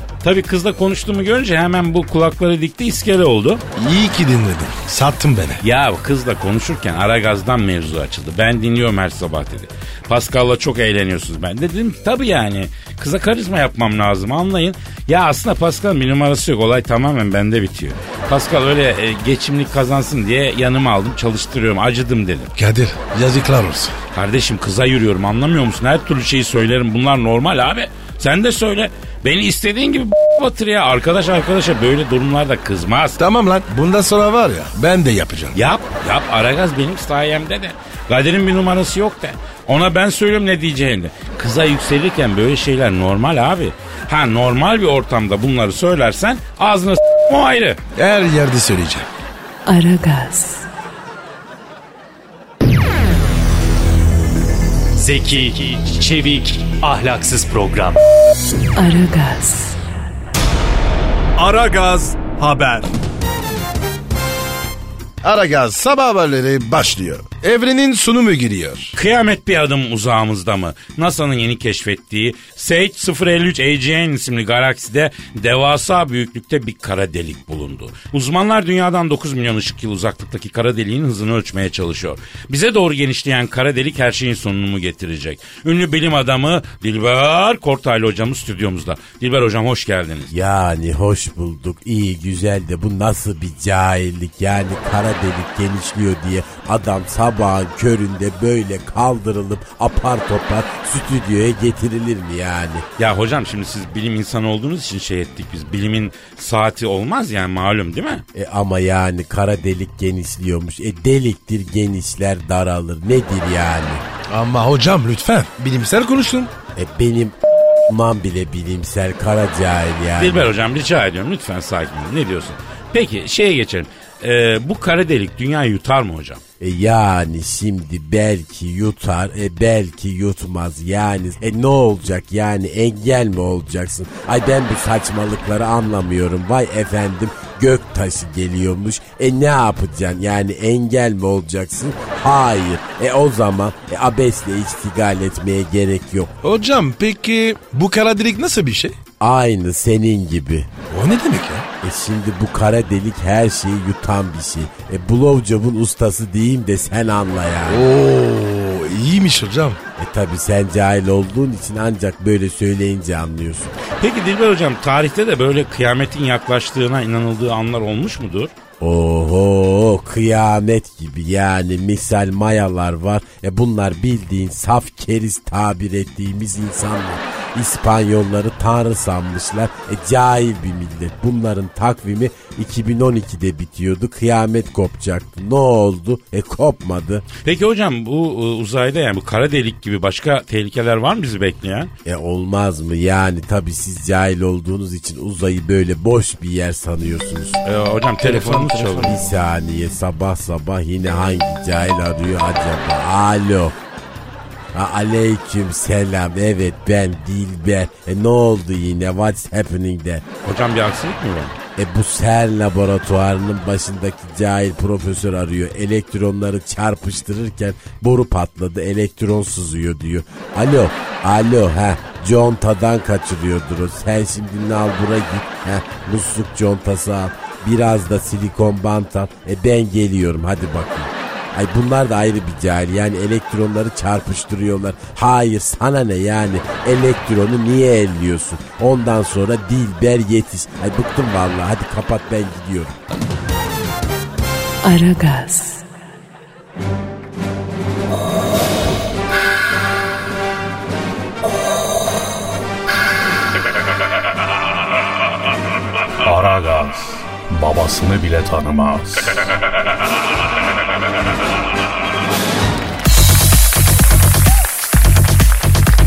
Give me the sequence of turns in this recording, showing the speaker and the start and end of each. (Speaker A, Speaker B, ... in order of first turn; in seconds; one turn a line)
Speaker A: 0.2-3.6
Speaker B: 3.8-5.6
Speaker A: 5.6-22.5
Speaker B: 22.6-23.9
Speaker A: 24.1-33.2
Speaker B: 33.2-35.6
Speaker A: 35.5-47.8
Speaker B: 48.0-49.1
Speaker C: 49.6-50.7
Speaker D: 55.0-58.0
Speaker C: 58.7-59.8
Speaker B: 61.4-62.9
Speaker B: 65.2-68.9
Speaker A: 68.9-90.3
Speaker E: 90.3-102.8
Speaker A: 103.0-108.2
Speaker E: 108.3-114.0
Speaker B: 114.3-116.5
Speaker E: 116.7-120.5
Speaker A: 120.2-126.4
Speaker E: 126.6-146.3
Speaker B: 146.4-149.0
Speaker E: 149.2-150.7
Speaker B: 150.9-151.7
Speaker E: 151.8-157.9
Speaker B: 157.7-159.8
Speaker E: 160.0-163.8
Speaker A: 163.9-168.5
Speaker E: 168.8-187.2
Speaker A: 187.4-191.9
Speaker E: 192.0-197.6
Speaker A: 197.6-199.2
Speaker B: 198.2-199.1
Speaker E: 199.0-203.8
Speaker E: 204.7-210.2
Speaker A: 210.4-211.6
Speaker E: 211.8-243.0
Speaker C: 244.8-245.8
Speaker F: 256.2-259.4